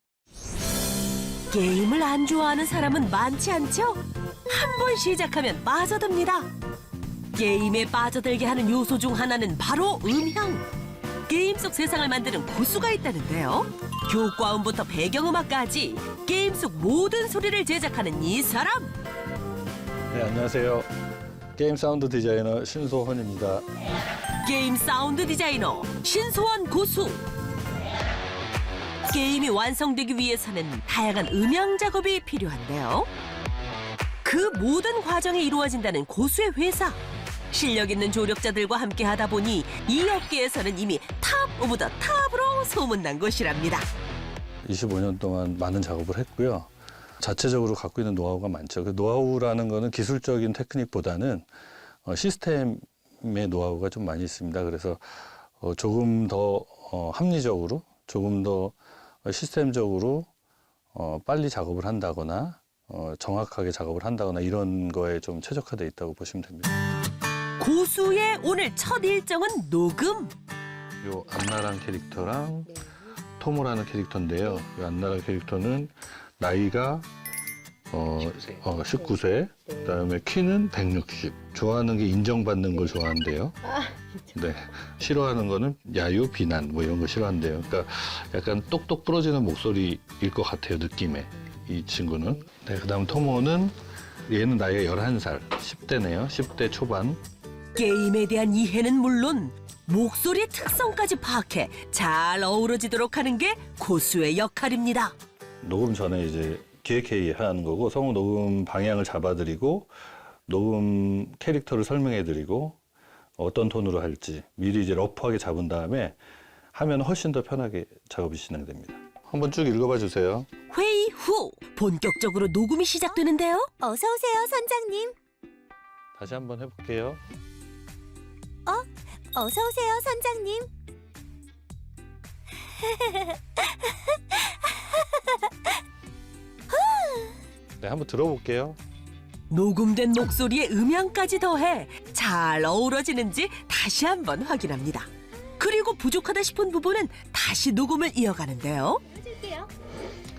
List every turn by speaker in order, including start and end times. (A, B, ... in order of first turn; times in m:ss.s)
0:01.5-0:06.5 A
0:07.3-0:10.6 A
0:11.3-0:18.9 A
0:20.1-0:20.9 B
0:21.6-0:23.6 B
0:24.4-0:27.3 A
0:29.1-0:33.1 A
0:34.2-0:37.0 A
0:37.5-0:43.9 A
0:44.6-0:46.7 B
0:47.2-0:51.5 B
0:52.0-1:00.3 B
1:00.9-1:06.7 B
1:07.6-1:10.3 A
1:11.0-1:17.1 B
1:17.9-1:23.6 B
1:24.3-1:33.8 B
1:34.3-1:37.2 B
1:37.7-1:45.1 A
1:45.6-1:49.9 B
1:50.5-1:52.8 B
1:53.4-1:56.2 B
1:56.7-2:00.5 B
2:00.7-2:03.7 A
2:03.8-2:05.1 C
2:06.2-2:07.2 B
2:08.6-2:10.7 C
2:12.8-2:15.7 C
2:16.7-2:17.4 C
2:17.8-2:18.8 B
2:19.5-2:29.0 A
2:29.1-2:29.7 C